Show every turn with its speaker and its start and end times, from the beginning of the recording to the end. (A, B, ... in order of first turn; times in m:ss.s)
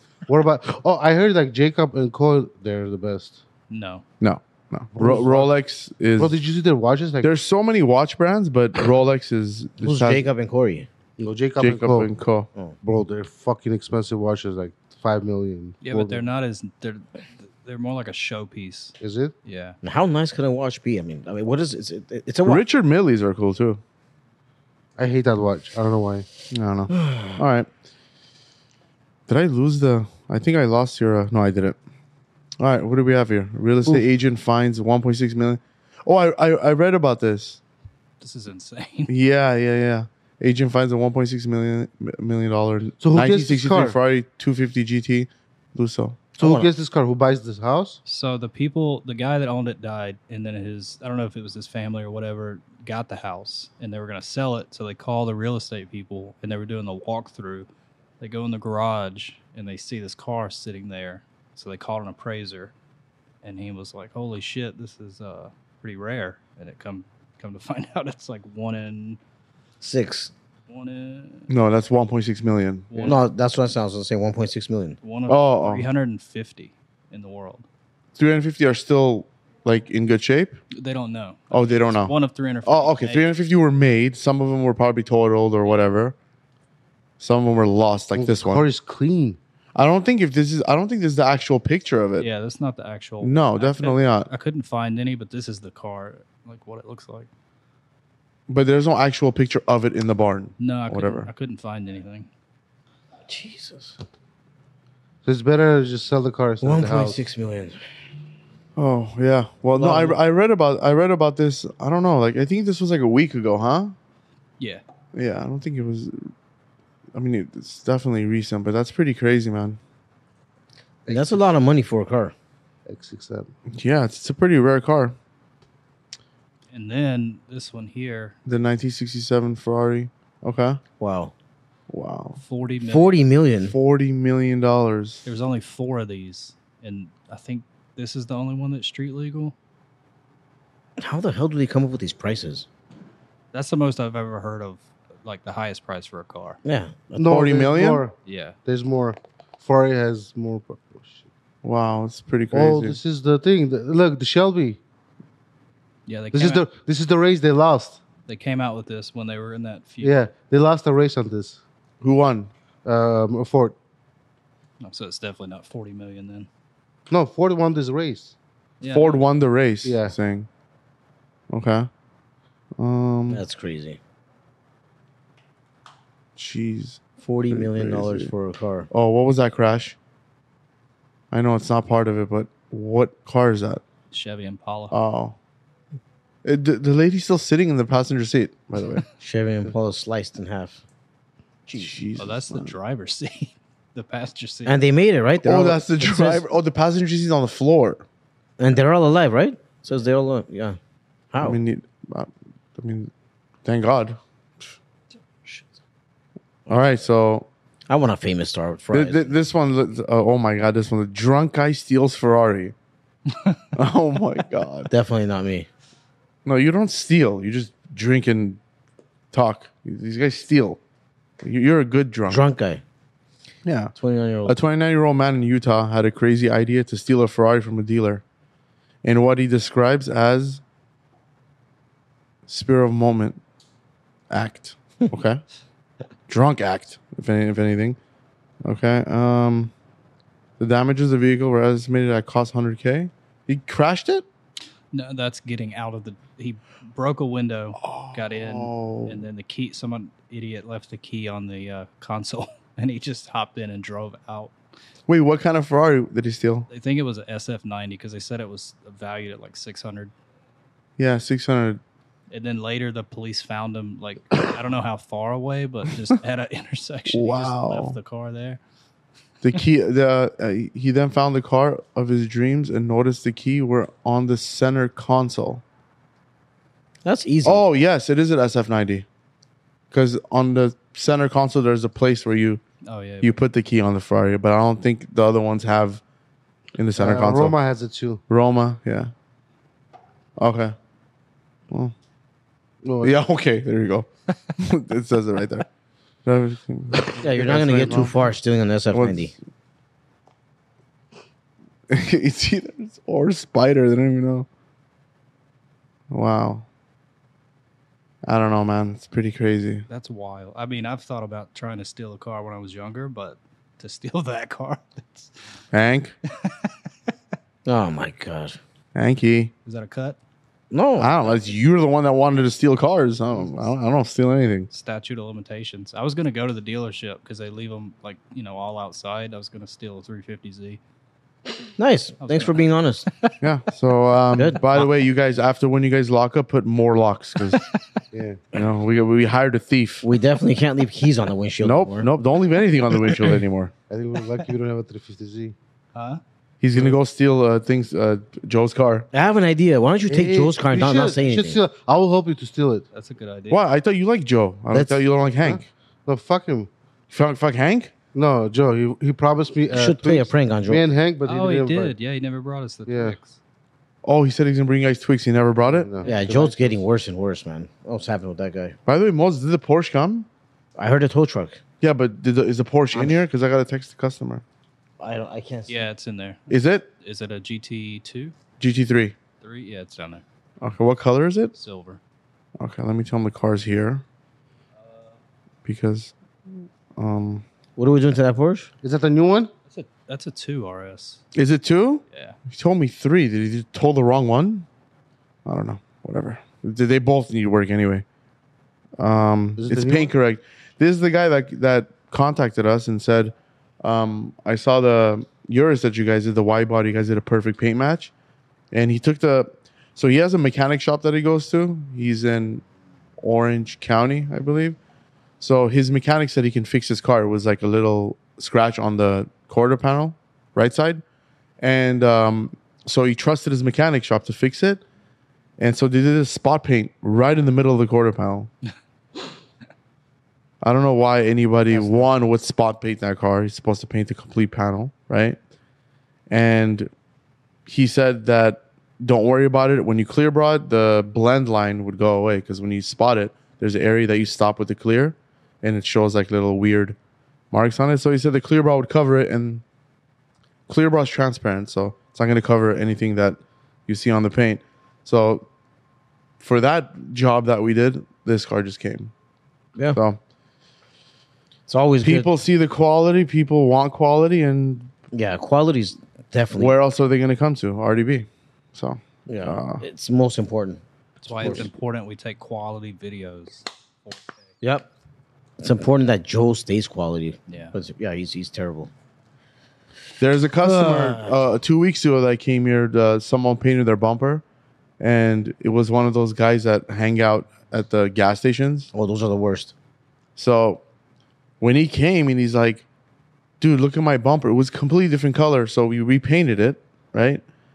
0:00.3-0:03.4 A
0:03.7-0:04.0 B
0:04.2-0:06.4 C
0:04.9-0:05.5 A
0:06.2-0:07.3 A
0:07.2-0:10.3 C
0:09.8-0:10.9 D
0:11.2-0:12.1 A
0:11.6-0:12.5 C
0:12.8-0:16.3 A
0:15.8-0:19.8 B
0:19.0-0:19.3 A
0:19.8-0:22.6 D
0:22.4-0:23.8 C
0:25.0-0:26.3 A
0:26.5-0:27.7 C
0:26.9-0:27.4 D
0:29.3-0:31.8 C
0:32.6-0:37.6 C
0:38.2-0:39.1 B
0:39.1-0:46.3 C
0:43.0-0:44.0 A
0:46.4-0:48.0 A
0:46.4-0:46.7 D
0:48.0-0:57.7 B
0:58.2-1:02.7 B
1:03.4-1:09.2 B
1:09.8-1:10.3 D
1:10.7-1:11.5 B
1:11.5-1:13.2 C
1:12.9-1:13.3 B
1:13.0-1:15.0 D
1:15.0-1:17.7 B
1:15.3-1:15.9 C
1:18.2-1:20.6 C
1:20.7-1:23.3 B
1:21.5-1:26.2 C
1:27.2-1:28.6 C
1:28.2-1:29.4 A
1:29.8-1:32.3 C
1:32.2-1:37.3 B
1:33.2-1:34.3 C
1:38.5-1:41.3 C
1:40.6-1:42.3 B
1:43.3-1:44.0 D
1:45.2-1:47.2 A
1:46.6-1:47.8 D
1:48.8-1:54.0 C
1:49.8-1:50.2 D
1:55.1-1:56.3 C
1:57.1-1:59.8 C
2:01.1-2:01.5 A
2:01.1-2:02.3 D
2:02.9-2:03.5 A
2:03.7-2:05.2 C
2:06.7-2:08.4 B
2:08.5-2:10.8 C
2:11.0-2:11.3 D
2:11.9-2:12.4 C
2:12.4-2:13.2 B
2:12.8-2:13.8 D
2:13.6-2:15.2 C
2:15.3-2:19.6 B
2:21.0-2:22.7 D
2:23.5-2:26.6 B
2:26.6-2:27.4 D
2:27.2-2:31.2 A
2:27.2-2:28.0 C
2:28.2-2:28.6 B
2:31.6-2:33.0 C
2:32.5-2:34.8 A
2:36.1-2:36.7 B
2:36.3-2:38.0 A
2:38.3-2:40.2 B
2:40.0-2:41.6 A
2:42.0-2:42.5 C
2:42.8-2:43.8 A
2:44.8-2:46.5 B
2:47.1-2:48.4 A
2:48.8-2:49.2 B
2:48.9-2:50.5 C
2:49.8-2:50.2 A
2:51.5-2:51.9 C
2:52.8-2:53.4 C
2:53.3-2:54.0 D
2:56.4-2:58.3 C
2:57.2-2:58.9 D
2:58.9-3:00.0 C
3:01.3-3:03.8 C
3:04.1-3:05.0 B
3:04.9-3:05.4 C
3:06.4-3:09.0 C
3:09.2-3:10.8 D
3:11.7-3:12.0 D
3:11.8-3:12.7 C
3:12.2-3:14.8 B
3:14.7-3:16.4 D
3:15.4-3:18.0 C
3:18.6-3:20.8 D
3:21.3-3:21.6 D
3:21.4-3:23.1 C
3:23.6-3:24.2 C
3:25.4-3:25.7 B
3:26.7-3:27.5 C
3:27.9-3:29.3 D
3:28.9-3:32.8 C
3:33.3-3:33.6 B
3:33.8-3:34.9 C
3:34.9-3:35.7 D
3:36.4-3:38.6 C
3:39.3-3:40.8 C
3:41.4-3:42.4 C
3:42.3-3:42.8 D
3:43.6-3:43.9 C
3:44.0-3:44.6 D
3:44.4-3:48.2 C
3:49.0-3:50.6 C
3:52.5-3:53.4 C
3:54.3-3:55.4 C
3:56.3-3:58.0 C
3:58.6-3:59.7 C
4:00.6-4:04.3 C
4:04.9-4:14.5 B
4:07.8-4:09.3 C
4:15.1-4:16.7 C
4:16.7-4:20.1 B
4:21.0-4:21.8 C
4:22.3-4:28.6 B
4:27.1-4:28.0 C
4:29.4-4:35.6 C
4:37.0-4:37.6 D
4:37.4-4:39.1 C
4:39.9-4:42.6 C
4:42.8-4:43.4 B
4:43.2-4:46.0 C
4:46.8-4:47.6 C
4:47.0-4:48.2 A
4:48.3-4:49.1 C
4:50.4-4:50.8 C
4:52.8-4:53.2 A
4:53.0-4:55.7 C
4:56.2-4:58.2 C
4:57.1-4:59.3 D
4:58.9-4:59.4 C
5:01.9-5:04.5 C
5:06.1-5:06.7 C
5:08.2-5:09.9 C
5:09.9-5:15.3 B
5:15.7-5:16.1 C
5:16.3-5:16.7 B
5:17.7-5:18.6 D
5:19.0-5:19.5 C
5:19.6-5:20.2 B
5:20.7-5:21.2 D
5:21.0-5:24.7 C
5:24.7-5:30.8 B
5:31.8-5:33.1 D
5:32.2-5:33.3 B
5:33.4-5:37.6 C
5:34.3-5:34.8 D
5:37.5-5:37.8 B
5:38.1-5:38.4 A
5:38.5-5:40.1 C
5:40.0-5:42.1 D
5:41.6-5:43.7 C
5:43.9-5:45.6 A
5:45.9-5:46.2 B
5:46.6-5:49.1 C
5:49.1-5:51.6 D
5:50.1-5:52.8 A
5:52.9-5:53.6 B
5:53.5-5:55.7 C
5:54.7-5:55.0 D
5:55.4-5:56.7 A
5:57.1-5:57.9 C
5:58.1-6:02.0 A
5:59.7-6:00.8 D
6:01.3-6:03.4 B
6:02.9-6:03.2 A
6:04.0-6:05.9 C
6:05.7-6:06.8 A
6:06.0-6:08.8 D
6:08.9-6:10.3 C
6:10.8-6:11.6 D
6:11.8-6:14.4 C
6:12.9-6:13.2 D
6:15.0-6:15.9 D
6:15.7-6:18.3 B
6:16.5-6:16.9 C
6:18.6-6:19.2 C
6:19.4-6:20.2 B
6:20.6-6:21.5 C
6:21.5-6:22.0 B
6:22.6-6:24.0 C
6:24.8-6:25.2 B
6:25.6-6:26.1 C
6:27.0-6:27.4 C
6:27.8-6:28.7 D
6:28.8-6:29.5 A
6:29.7-6:31.2 B
6:31.4-6:34.7 C
6:32.1-6:32.4 B
6:35.4-6:38.0 C
6:39.0-6:48.1 C
6:39.6-6:40.1 A
6:48.7-6:52.6 C
6:53.2-6:54.8 C
6:55.4-7:01.0 C
7:01.6-7:04.8 C
7:05.6-7:08.5 C
7:10.6-7:15.4 C
7:16.3-7:16.9 C
7:17.7-7:27.0 C
7:27.5-7:29.6 C
7:30.7-7:35.5 C
7:36.4-7:39.1 C
7:39.9-7:40.2 C
7:41.7-7:42.3 D
7:42.0-7:44.9 C
7:45.1-7:46.7 D
7:46.5-7:49.8 C
7:49.3-7:51.7 D
7:51.2-7:54.4 B
7:54.6-7:54.9 D
7:55.6-7:58.9 D
7:57.5-7:57.8 B
8:00.2-8:04.4 C
8:00.6-8:01.4 D
8:05.0-8:08.9 C
8:08.9-8:09.7 D
8:10.4-8:10.8 C
8:11.6-8:12.9 C
8:13.6-8:17.4 C